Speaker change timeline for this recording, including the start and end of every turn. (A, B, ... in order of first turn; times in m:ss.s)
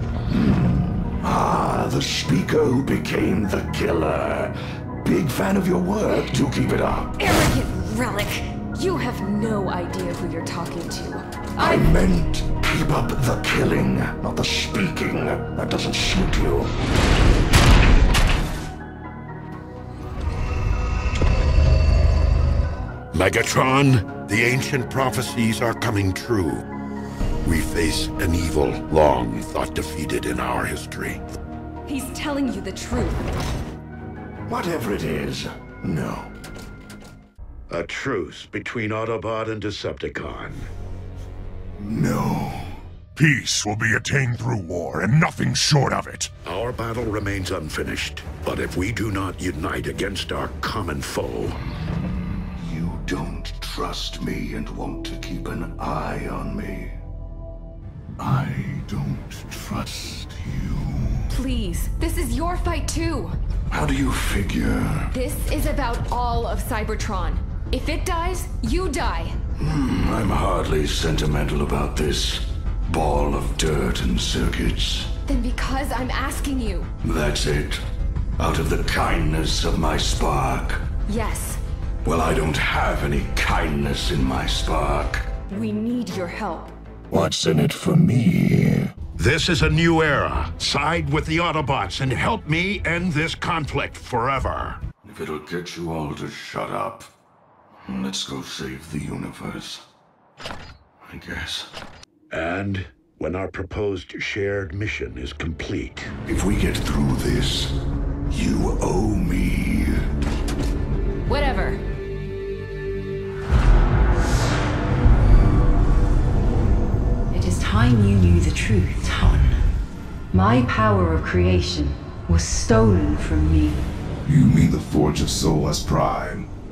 0:00.3-0:07.1 A
0:07.2-0:11.9 B
0:11.6-0:16.7 A
0:23.1-0:26.6 C
0:27.4-0:31.2 C
0:31.9-0:33.3 B
0:34.5-0:36.3 A
0:37.7-0:40.7 C
0:41.8-0:42.8 A
0:43.2-0:46.3 D
0:46.4-0:51.6 C
0:52.6-0:57.0 A
0:58.2-1:01.3 A
1:01.3-1:03.4 B
1:03.7-1:05.1 A
1:05.1-1:09.4 B
1:09.6-1:15.1 A
1:15.3-1:16.9 B
1:17.0-1:17.8 A
1:18.4-1:20.8 A
1:21.1-1:21.6 B
1:22.0-1:25.3 A
1:25.5-1:26.8 B
1:27.1-1:28.9 A
1:29.2-1:34.8 C
1:35.0-1:37.1 A
1:37.8-1:39.8 A
1:41.1-1:41.7 A
1:42.3-1:46.1 C
1:46.3-1:47.8 A
1:48.3-1:50.0 A
1:51.3-1:51.8 B
1:57.3-1:59.7 E
2:00.3-2:03.8 E
2:04.2-2:06.5 F